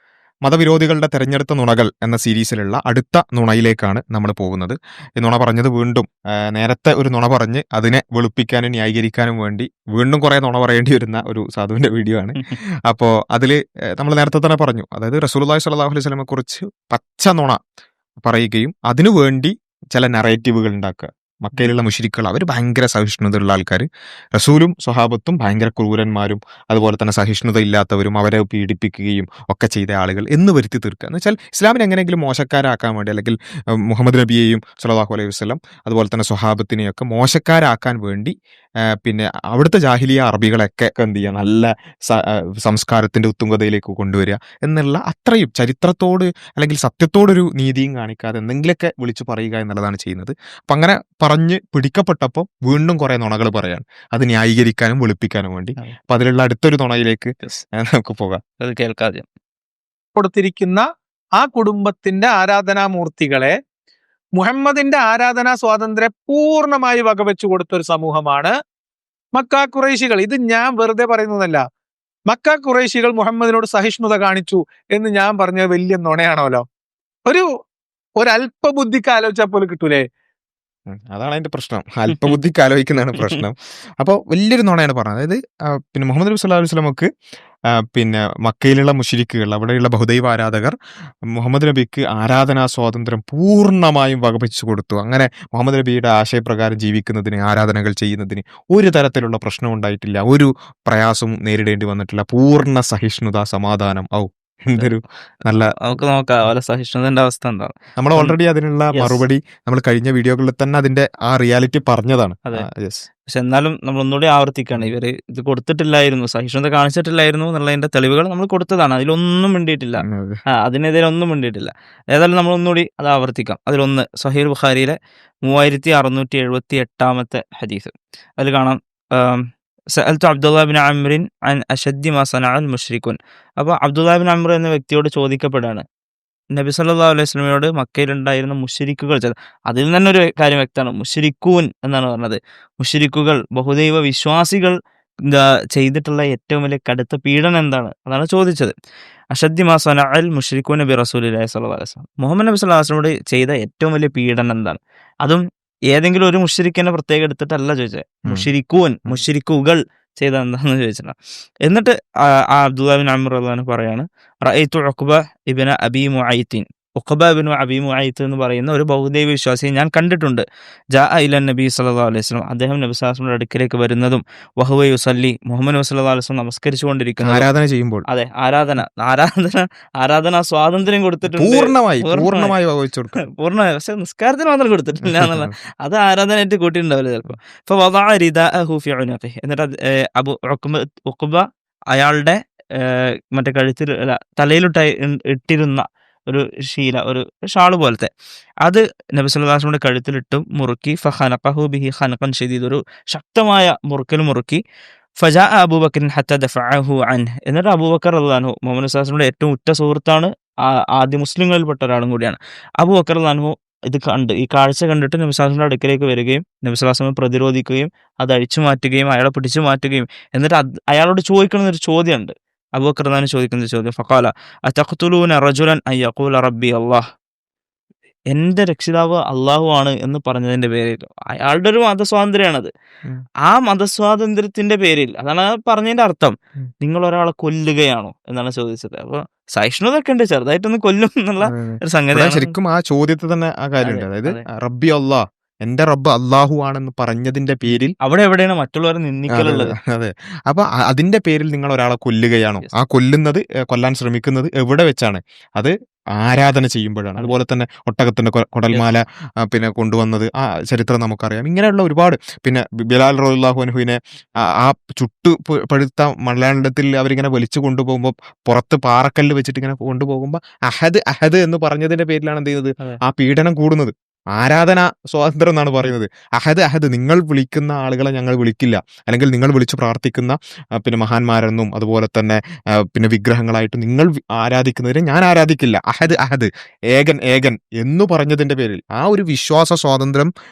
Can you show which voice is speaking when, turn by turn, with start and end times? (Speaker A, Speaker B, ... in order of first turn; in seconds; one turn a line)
Speaker A: 0.4-12.4
Speaker A: 12.9-17.6
Speaker A: 18.2-38.3
Speaker A: 39.0-58.4
Speaker B: 58.6-59.2
Speaker C: 60.1-60.8
Speaker C: 61.4-63.5
Speaker C: 64.4-68.5
Speaker C: 69.3-71.6
Speaker C: 72.3-76.6
Speaker C: 78.2-80.0
Speaker A: 80.9-87.1
Speaker B: 83.2-83.4
Speaker A: 87.9-90.7
Speaker A: 91.3-106.0
Speaker B: 105.5-108.3
Speaker A: 108.0-113.0
Speaker B: 108.9-109.2
Speaker B: 113.3-120.0
Speaker A: 120.1-120.4
Speaker B: 120.6-129.4
Speaker B: 129.9-135.8
Speaker B: 136.5-144.7
Speaker B: 145.2-148.7
Speaker B: 149.3-161.1
Speaker B: 161.7-161.9
Speaker B: 162.6-170.4
Speaker B: 170.9-177.5
Speaker A: 177.2-178.0
Speaker B: 178.1-182.5
Speaker A: 181.3-183.2
Speaker B: 183.2-191.4
Speaker A: 185.1-185.5
Speaker B: 191.9-198.1
Speaker B: 198.6-204.6
Speaker B: 205.2-227.0
Speaker B: 228.3-232.7
Speaker B: 233.4-242.5
Speaker A: 241.4-247.9
Speaker B: 243.8-244.4
Speaker B: 247.7-249.7
Speaker A: 249.3-264.0
Speaker A: 264.5-282.4
Speaker A: 282.9-290.3